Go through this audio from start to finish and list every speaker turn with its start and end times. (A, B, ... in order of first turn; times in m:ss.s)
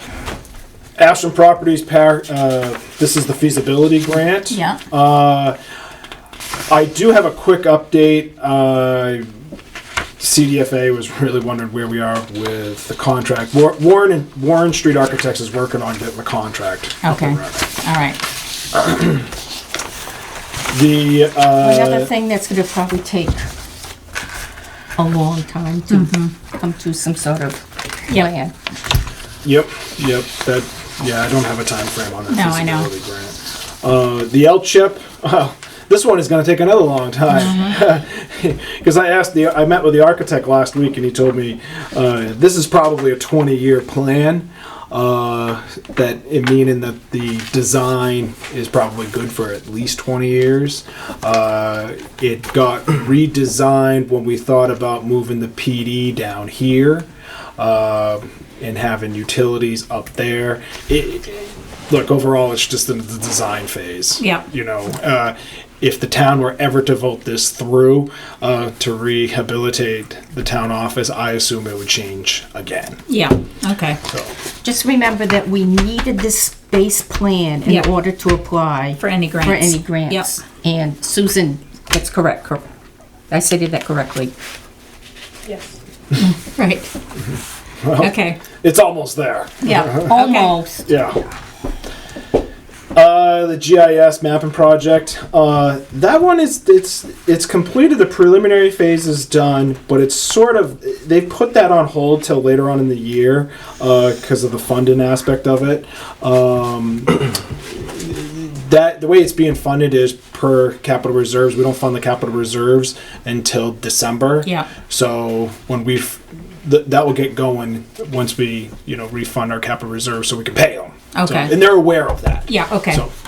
0:01.0-0:05.6 A
0:04.5-0:04.8 B
0:06.7-0:09.3 A
0:10.2-0:17.7 A
0:17.0-0:18.2 B
0:18.7-0:19.3 A
0:20.7-0:22.1 A
0:21.6-0:23.5 C
0:25.0-0:28.5 C
0:25.9-0:26.3 B
0:29.4-0:57.1 A
0:32.3-0:32.9 B
0:57.6-1:13.0 A
1:04.2-1:04.4 B
1:13.1-1:14.0 B
1:14.1-1:14.3 A
1:14.6-1:22.6 C
1:19.0-1:20.3 B
1:23.3-1:24.3 C
1:26.2-1:26.9 B
1:27.8-1:30.2 A
1:28.0-1:28.4 B
1:29.6-1:30.6 B
1:30.1-1:30.8 C
1:30.8-1:31.2 A
1:32.9-2:03.1 A
2:01.1-2:01.6 B
2:02.5-2:03.0 B